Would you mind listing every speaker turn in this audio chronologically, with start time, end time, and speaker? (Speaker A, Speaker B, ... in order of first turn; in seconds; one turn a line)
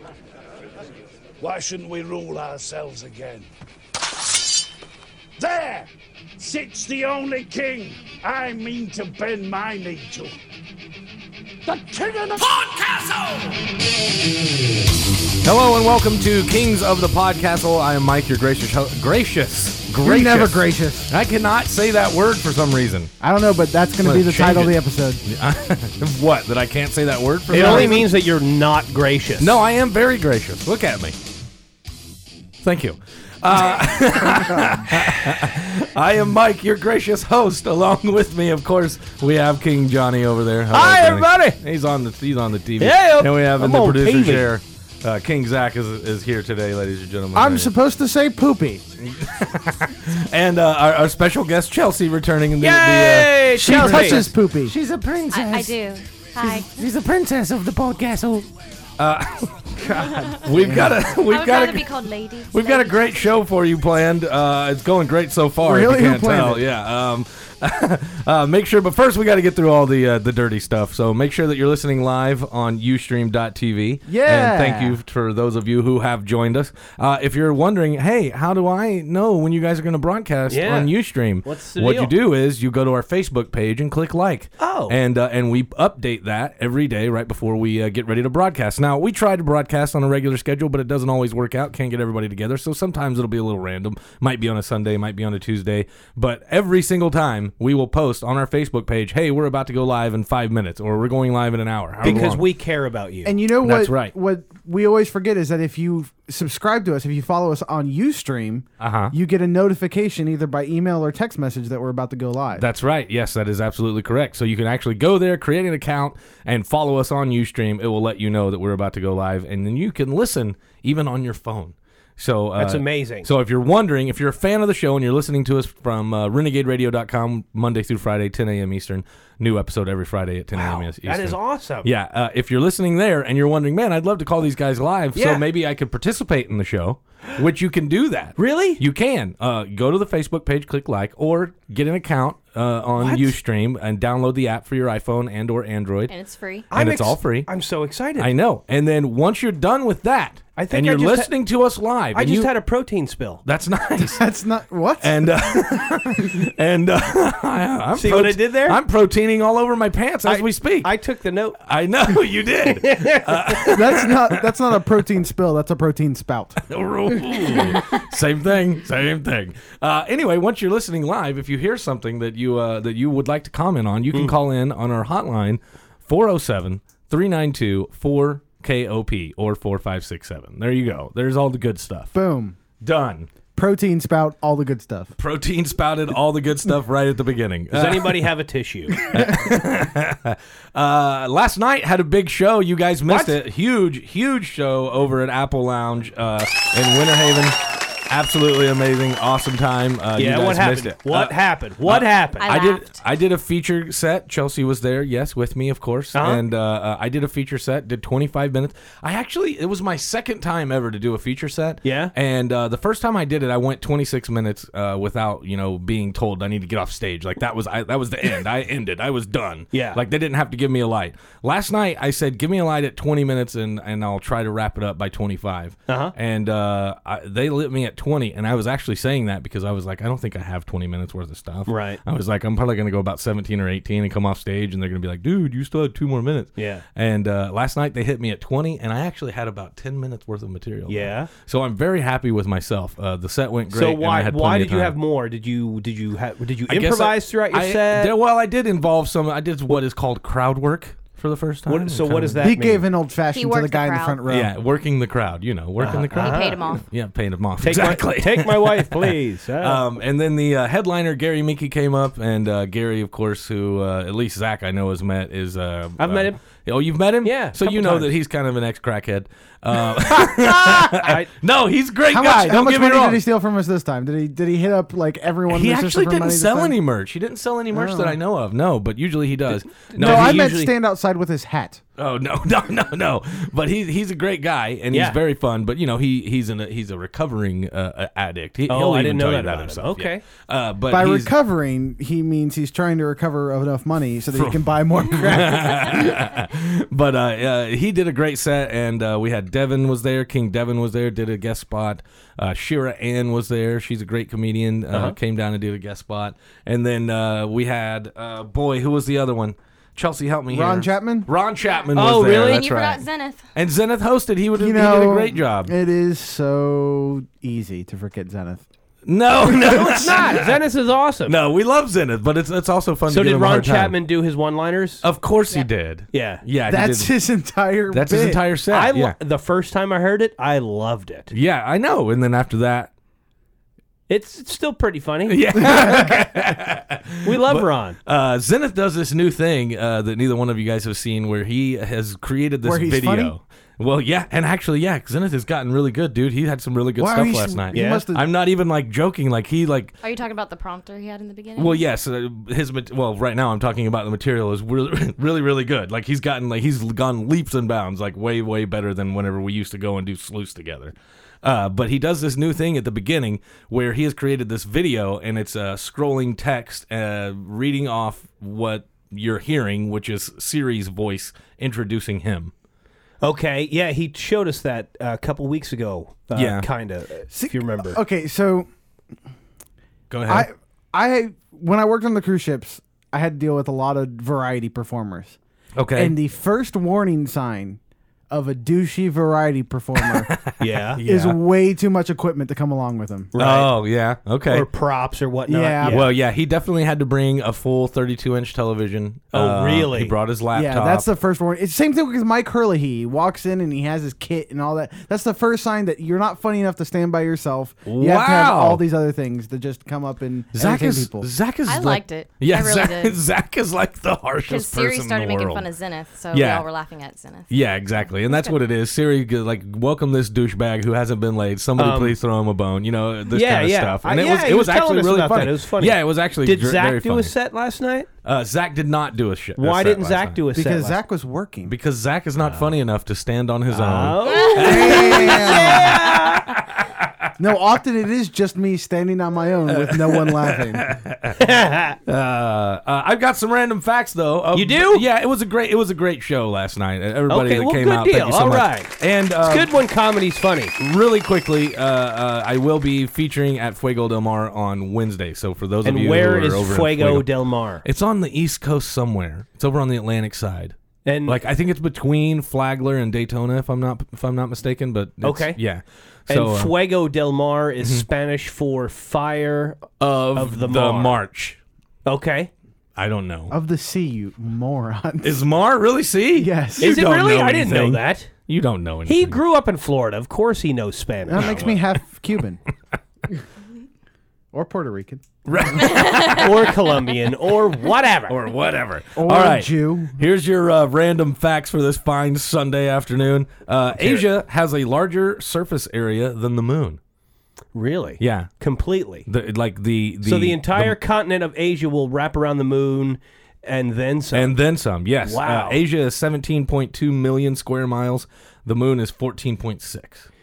Speaker A: 1.4-3.5
Speaker A: 5.4-10.3
Speaker A: 11.7-13.6
Speaker B: 15.4-23.1
Speaker C: 20.0-21.1
Speaker C: 23.2-25.2
Speaker B: 24.0-28.0
Speaker D: 27.5-29.6
Speaker C: 27.5-28.1
Speaker B: 29.4-31.1
Speaker B: 32.6-47.7
Speaker D: 40.7-41.5
Speaker D: 42.8-44.5
Speaker C: 47.3-48.9
Speaker B: 49.0-55.8
Speaker D: 52.6-54.2
Speaker C: 53.5-54.7
Speaker E: 55.3-56.7
Speaker B: 56.4-61.9
Speaker E: 60.1-60.4
Speaker C: 60.5-61.0
Speaker E: 61.2-63.0
Speaker B: 62.5-102.5
Speaker C: 65.6-66.6
Speaker C: 74.1-75.0
Speaker D: 80.5-82.1
Speaker D: 84.6-85.0
Speaker D: 102.0-103.4
Speaker C: 103.2-112.7
Speaker B: 103.6-104.1
Speaker B: 108.8-109.1
Speaker B: 112.6-146.1
Speaker D: 122.6-123.3
Speaker D: 130.5-131.9
Speaker D: 135.1-135.4
Speaker D: 138.4-138.8
Speaker D: 143.0-143.3
Speaker E: 146.1-146.7
Speaker B: 146.7-147.5
Speaker D: 146.7-148.3
Speaker B: 148.2-152.5
Speaker D: 150.6-151.3
Speaker D: 152.1-153.4
Speaker B: 153.4-154.2
Speaker C: 154.1-155.6
Speaker B: 155.0-160.9
Speaker D: 158.0-158.8
Speaker D: 160.2-161.6
Speaker B: 161.6-164.6
Speaker D: 162.7-163.6
Speaker C: 163.6-166.6
Speaker B: 166.7-182.1
Speaker C: 182.1-182.6
Speaker B: 182.8-183.3
Speaker C: 183.5-185.1
Speaker B: 185.2-188.3
Speaker D: 187.7-189.0
Speaker B: 189.0-197.5
Speaker D: 193.1-193.3
Speaker B: 198.1-244.9
Speaker D: 200.2-202.5
Speaker E: 202.4-203.0
Speaker D: 206.1-206.4
Speaker D: 211.8-212.1
Speaker D: 219.7-220.0
Speaker D: 225.9-226.1
Speaker D: 231.7-232.0
Speaker D: 236.6-236.8
Speaker D: 240.9-241.3
Speaker D: 243.7-248.1
Speaker B: 246.7-252.6
Speaker D: 251.7-252.8
Speaker C: 252.4-254.5
Speaker E: 253.3-254.2
Speaker B: 254.2-273.2
Speaker D: 255.8-256.6
Speaker E: 256.1-256.8
Speaker D: 257.6-259.8
Speaker D: 266.0-266.4
Speaker D: 267.2-268.1
Speaker D: 271.0-271.3
Speaker C: 272.1-276.8
Speaker B: 275.5-280.5
Speaker C: 277.7-278.2
Speaker D: 279.8-280.7
Speaker C: 280.0-281.8
Speaker B: 282.0-291.3
Speaker D: 284.9-285.2
Speaker D: 288.7-290.2
Speaker C: 290.9-296.1
Speaker B: 294.3-315.7
Speaker D: 304.9-305.1
Speaker C: 310.5-311.3
Speaker E: 311.6-313.4
Speaker D: 311.9-312.6
Speaker C: 314.6-318.6
Speaker B: 319.1-320.5
Speaker D: 319.5-321.4
Speaker B: 321.2-323.9
Speaker D: 323.1-325.0
Speaker B: 325.0-327.1
Speaker D: 326.1-326.4
Speaker C: 326.6-328.4
Speaker B: 327.9-329.1
Speaker D: 328.7-331.3
Speaker B: 331.3-332.9
Speaker D: 334.1-335.6
Speaker B: 335.3-349.9
Speaker D: 337.2-338.0
Speaker C: 342.6-343.3
Speaker C: 347.0-348.2
Speaker D: 347.7-348.0
Speaker E: 350.0-351.8
Speaker B: 351.6-372.5
Speaker D: 373.2-378.0
Speaker B: 376.3-376.6
Speaker C: 377.3-378.7
Speaker B: 380.1-380.5
Speaker C: 380.3-385.4
Speaker B: 385.8-386.1
Speaker C: 385.9-387.8
Speaker C: 388.3-390.3
Speaker B: 390.0-391.4
Speaker D: 390.6-391.0
Speaker C: 391.0-393.3
Speaker D: 393.3-393.7
Speaker B: 393.4-394.7
Speaker D: 394.5-396.1
Speaker C: 395.5-396.1
Speaker B: 395.8-401.1
Speaker D: 399.3-400.1
Speaker C: 400.5-411.3
Speaker B: 407.9-408.8
Speaker B: 410.5-415.6
Speaker E: 411.7-413.2
Speaker E: 414.5-417.5
Speaker B: 416.3-416.6
Speaker B: 417.5-427.3
Speaker E: 418.2-418.6
Speaker D: 421.8-422.2
Speaker D: 423.3-428.1
Speaker B: 428.2-430.4
Speaker D: 429.6-431.0
Speaker C: 430.5-431.7
Speaker B: 431.6-437.3
Speaker D: 432.4-432.6
Speaker D: 433.7-436.5
Speaker C: 434.4-436.0
Speaker C: 437.4-440.9
Speaker B: 439.7-441.4
Speaker D: 441.4-442.0
Speaker B: 442.1-449.7
Speaker D: 444.5-445.0
Speaker D: 447.3-450.7
Speaker B: 450.8-457.3
Speaker D: 455.8-457.8
Speaker B: 457.8-466.7
Speaker D: 461.1-461.4
Speaker D: 465.2-465.6
Speaker D: 466.3-471.1
Speaker B: 470.0-471.6
Speaker D: 472.1-472.5
Speaker B: 473.0-473.6
Speaker C: 473.5-475.4
Speaker B: 475.2-479.4
Speaker C: 476.4-476.9
Speaker D: 476.8-478.3
Speaker D: 479.1-481.5
Speaker C: 481.3-482.6
Speaker B: 481.3-482.0
Speaker C: 484.5-485.2
Speaker B: 485.4-486.5
Speaker D: 486.1-488.4
Speaker B: 488.3-497.0
Speaker C: 489.1-490.2
Speaker D: 497.7-499.3
Speaker B: 498.2-498.5
Speaker B: 499.2-501.0
Speaker D: 500.2-504.6
Speaker B: 504.3-510.3
Speaker D: 505.2-505.8